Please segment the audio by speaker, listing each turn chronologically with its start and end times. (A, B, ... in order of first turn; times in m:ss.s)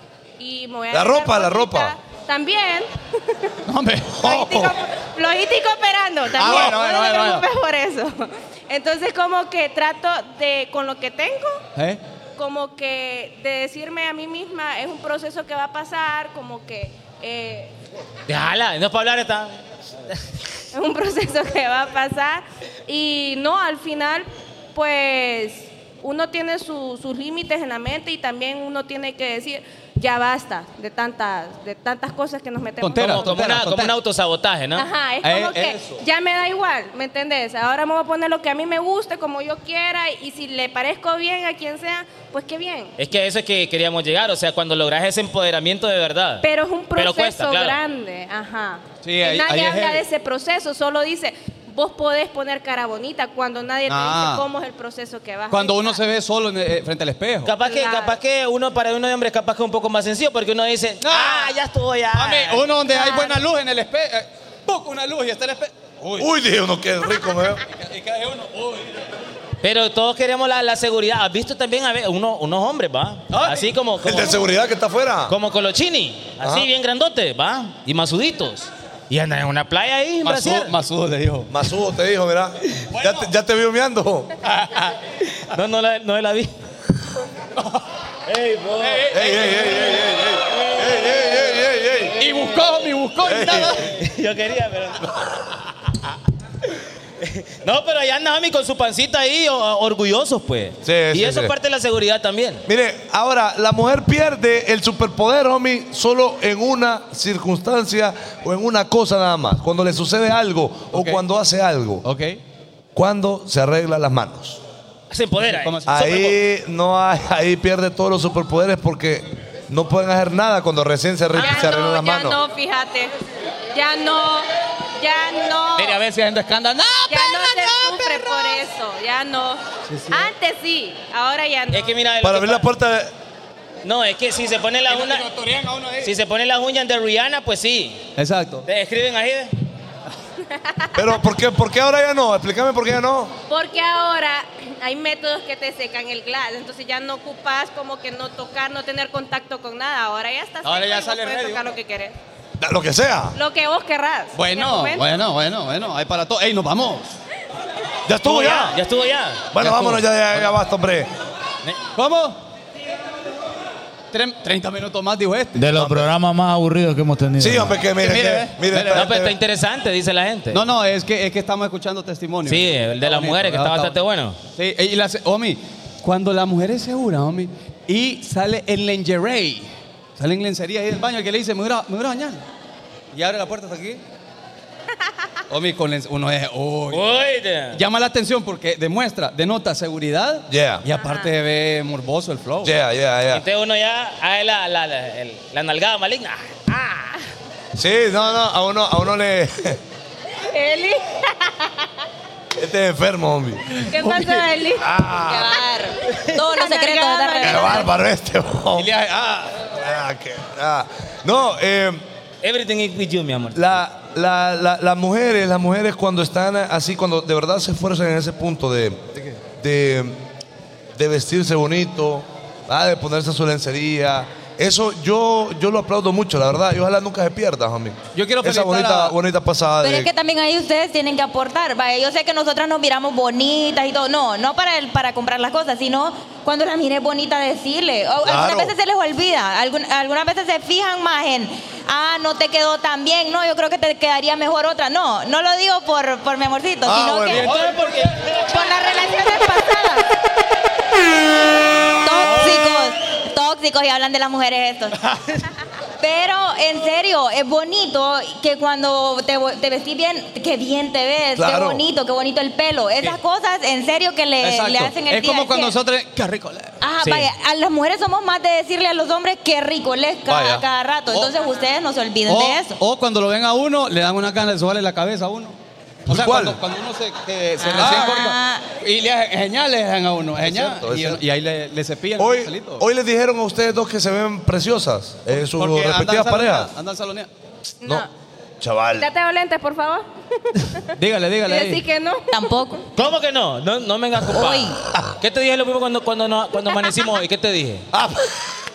0:00.4-0:03.5 A
0:00.9-0:01.9 B
0:03.6-0:04.2 C
0:04.1-0:04.8 B
0:04.2-0:11.6 A
0:06.3-0:07.4 C
0:12.4-0:17.7 A
0:18.3-0:19.6 D
0:20.7-0:33.3 A
0:32.8-0:33.9 C
0:33.0-0:34.9 D
0:34.8-0:42.9 A
0:35.2-0:36.0 C
0:43.0-0:46.4 D
0:46.4-0:56.0 A
0:47.0-0:47.8 D
0:49.0-0:50.0 C
0:53.9-0:54.4 C
0:55.5-0:57.5 C
0:57.4-1:02.6 D
0:57.6-0:58.2 A
1:01.0-1:01.6 C
1:02.1-1:06.3 C
1:02.9-1:03.4 A
1:06.2-1:07.6 B
1:07.7-1:09.0 C
1:09.6-1:14.4 D
1:13.3-1:13.7 C
1:14.0-1:15.3 B
1:15.3-1:20.7 D
1:16.4-1:16.7 B
1:20.2-1:21.5 C
1:21.5-1:24.3 B
1:22.9-1:23.3 C
1:24.4-1:24.9 C
1:25.3-1:26.5 D
1:27.6-1:27.8 C
1:28.3-1:29.0 D
1:28.8-1:30.0 C
1:29.1-1:32.2 B
1:32.2-1:34.0 C
1:33.2-1:33.9 B
1:33.8-1:35.6 D
1:37.2-1:42.6 D
1:40.8-1:41.5 B
1:42.6-1:52.0 B
1:50.9-1:51.2 C
1:52.0-1:52.4 C
1:52.9-1:54.6 B
1:55.1-1:56.1 D
1:55.4-1:56.3 C
1:55.9-2:02.4 B
2:01.3-2:03.1 A
2:01.4-2:01.7 D
2:03.7-2:06.0 A
2:05.8-2:08.2 C
2:07.1-2:11.9 A
2:09.9-2:10.3 C
2:11.7-2:12.7 D
2:12.2-2:13.1 B
2:13.8-2:15.3 D
2:14.9-2:16.1 C
2:16.0-2:18.0 D
2:18.2-2:18.6 C
2:18.6-2:19.5 D
2:20.5-2:21.0 A
2:20.9-2:23.3 B
2:23.5-2:32.1 A
2:30.6-2:31.7 C
2:32.6-2:33.4 B
2:33.3-2:35.1 A
2:34.3-2:37.1 C
2:38.0-2:38.8 B
2:38.2-2:39.5 D
2:39.5-2:41.1 B
2:39.6-2:40.0 C
2:41.9-2:42.4 C
2:44.1-2:45.7 C
2:45.5-2:47.8 E
2:45.7-2:46.1 B
2:47.4-2:49.3 B
2:48.0-2:49.1 C
2:48.9-2:50.6 D
2:50.5-2:54.0 C
2:52.4-2:54.4 D
2:54.6-3:02.4 C
3:03.1-3:04.0 C
3:05.5-3:07.0 C
3:06.9-3:07.8 D
3:07.7-3:12.8 C
3:10.5-3:10.8 B
3:11.0-3:11.3 A
3:12.6-3:13.4 B
3:13.3-3:17.1 D
3:17.8-3:19.8 B
3:20.4-3:21.9 A
3:22.6-3:23.6 B
3:23.8-3:24.5 C
3:23.9-3:24.9 A
3:24.8-3:25.6 B
3:25.1-3:27.9 F
3:26.5-3:27.9 A
3:27.4-3:28.9 B
3:28.7-3:29.6 C
3:29.6-3:32.0 B
3:32.4-3:33.7 D
3:33.5-3:39.0 B
3:39.6-3:40.2 B
3:41.0-3:50.1 B
3:48.1-3:49.1 C
3:49.8-4:07.5 F
3:58.2-3:58.7 B
4:06.8-4:07.5 B
4:07.3-4:08.5 D
4:07.4-4:08.0 C
4:08.4-4:10.1 A
4:12.0-4:15.0 F
4:16.0-4:25.8 F
4:21.3-4:21.8 B
4:24.4-4:27.3 C
4:26.8-4:32.8 F
4:30.3-4:31.3 B
4:32.2-4:42.8 C
4:36.0-4:36.6 B
4:37.6-4:38.6 F
4:40.4-4:41.2 B
4:42.2-4:46.7 B
4:45.3-4:47.3 C
4:47.8-4:48.1 A
4:48.6-4:49.1 B
4:49.0-4:50.9 A
4:50.9-4:51.8 C
4:51.4-4:52.3 A
4:52.3-4:52.8 F
4:53.0-4:57.8 D
4:54.3-4:54.8 F
4:57.9-4:58.3 B